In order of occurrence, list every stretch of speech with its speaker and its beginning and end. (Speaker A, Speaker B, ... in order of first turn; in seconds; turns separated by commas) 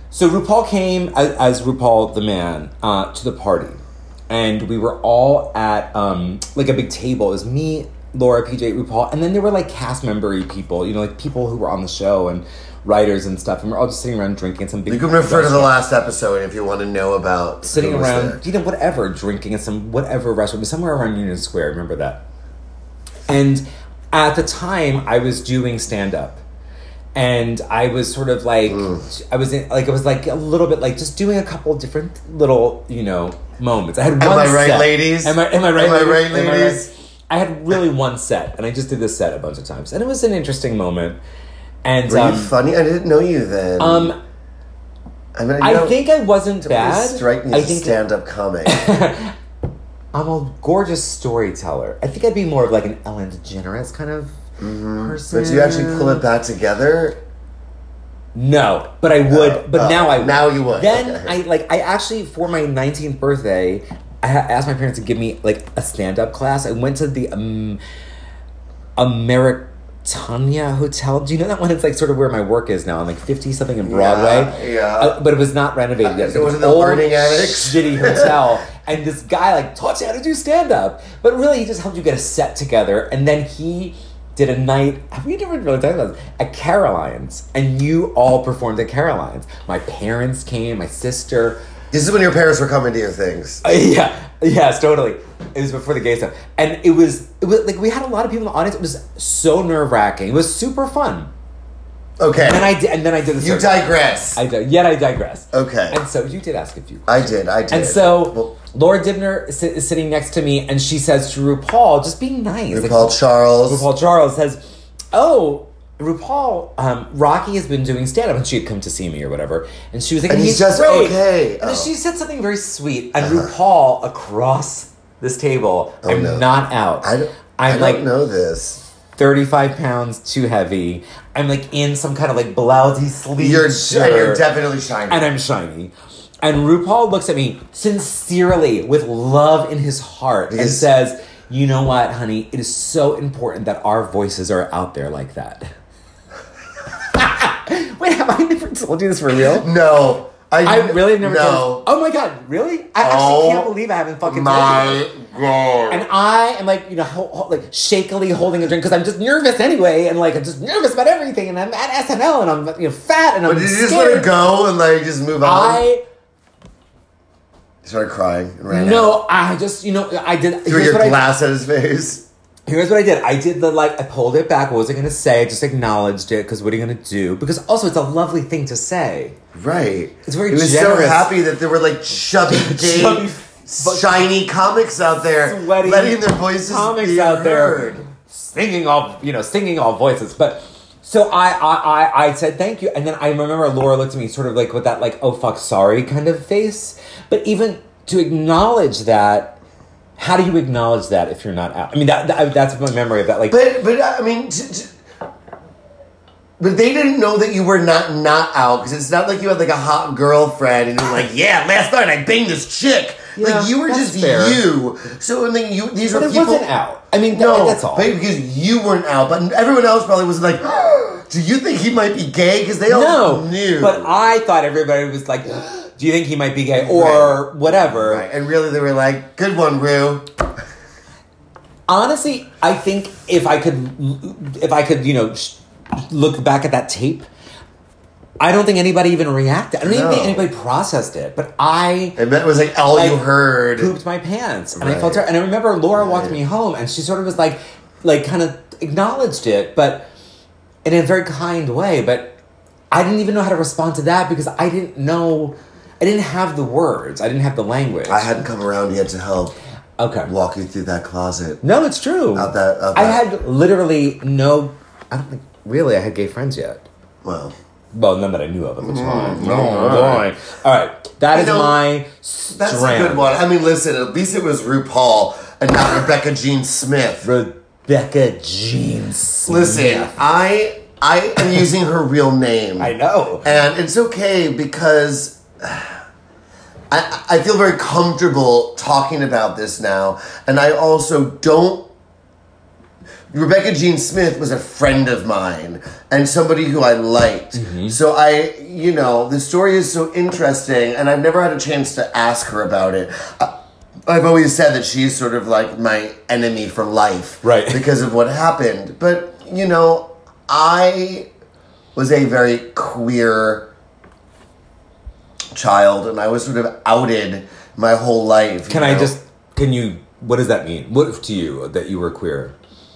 Speaker A: 0.1-15.8, Speaker B: 14.9-18.4, Speaker A: 17.7-22.2, Speaker A: 23.3-26.4, Speaker A: 27.1-41.2, Speaker B: 28.7-29.1, Speaker B: 34.2-36.9, Speaker A: 41.9-42.5, Speaker B: 42.0-44.1, Speaker A: 43.8-44.2, Speaker B: 45.4-46.0, Speaker A: 45.6-48.0, Speaker B: 46.6-48.9, Speaker A: 48.6-49.3, Speaker A: 50.1-54.4, Speaker B: 54.6-57.2, Speaker A: 55.0-56.2, Speaker A: 58.4-67.8, Speaker B: 59.3-61.4, Speaker A: 69.0-91.6, Speaker B: 73.8-75.2, Speaker B: 76.0-78.4, Speaker B: 91.9-93.6, Speaker A: 93.6-101.3, Speaker B: 102.2-102.8, Speaker A: 102.4-114.6, Speaker B: 103.4-104.4, Speaker B: 105.5-106.0, Speaker B: 107.1-108.5, Speaker B: 112.7-113.9, Speaker A: 115.1-128.0, Speaker B: 120.3-121.9, Speaker B: 123.2-123.5, Speaker B: 126.0-126.5, Speaker B: 127.0-128.8, Speaker A: 129.2-134.4, Speaker B: 133.4-135.3, Speaker A: 135.1-145.7, Speaker B: 140.5-140.9, Speaker A: 147.0-149.7, Speaker B: 149.5-151.8, Speaker A: 150.6-155.1, Speaker B: 153.0-153.7, Speaker B: 154.2-156.1, Speaker A: 155.9-164.3, Speaker B: 163.5-165.8, Speaker A: 165.4-166.0, Speaker B: 167.8-169.2, Speaker A: 168.7-171.2, Speaker B: 170.6-172.2, Speaker A: 172.7-179.4, Speaker B: 179.5-188.0, Speaker A: 180.3-181.3, Speaker A: 182.5-184.3, Speaker A: 185.4-199.6, Speaker A: 200.2-203.6, Speaker B: 203.5-204.9, Speaker B: 206.6-216.7, Speaker A: 213.4-214.6, Speaker A: 216.1-218.1, Speaker B: 217.3-224.1, Speaker A: 222.9-228.2, Speaker B: 226.8-230.3, Speaker A: 231.9-237.2, Speaker A: 238.4-242.2, Speaker B: 239.8-240.5, Speaker B: 242.2-243.9, Speaker A: 242.9-243.2, Speaker A: 243.8-250.1, Speaker B: 244.8-245.2, Speaker B: 246.0-246.4, Speaker A: 250.8-252.4, Speaker A: 252.9-258.3, Speaker B: 258.1-259.6, Speaker A: 260.0-260.3, Speaker B: 260.2-261.6, Speaker A: 261.6-266.9, Speaker B: 262.3-263.2, Speaker B: 267.2-267.5, Speaker A: 267.9-273.3, Speaker B: 268.8-270.3, Speaker B: 271.3-271.8, Speaker B: 272.5-277.3, Speaker A: 277.2-280.1, Speaker B: 279.5-286.0, Speaker A: 282.8-283.5, Speaker B: 286.9-291.9, Speaker B: 293.3-303.5, Speaker A: 297.5-298.0, Speaker B: 304.1-311.3, Speaker A: 307.4-307.8, Speaker B: 311.9-313.7, Speaker B: 315.5-319.2, Speaker A: 318.7-322.5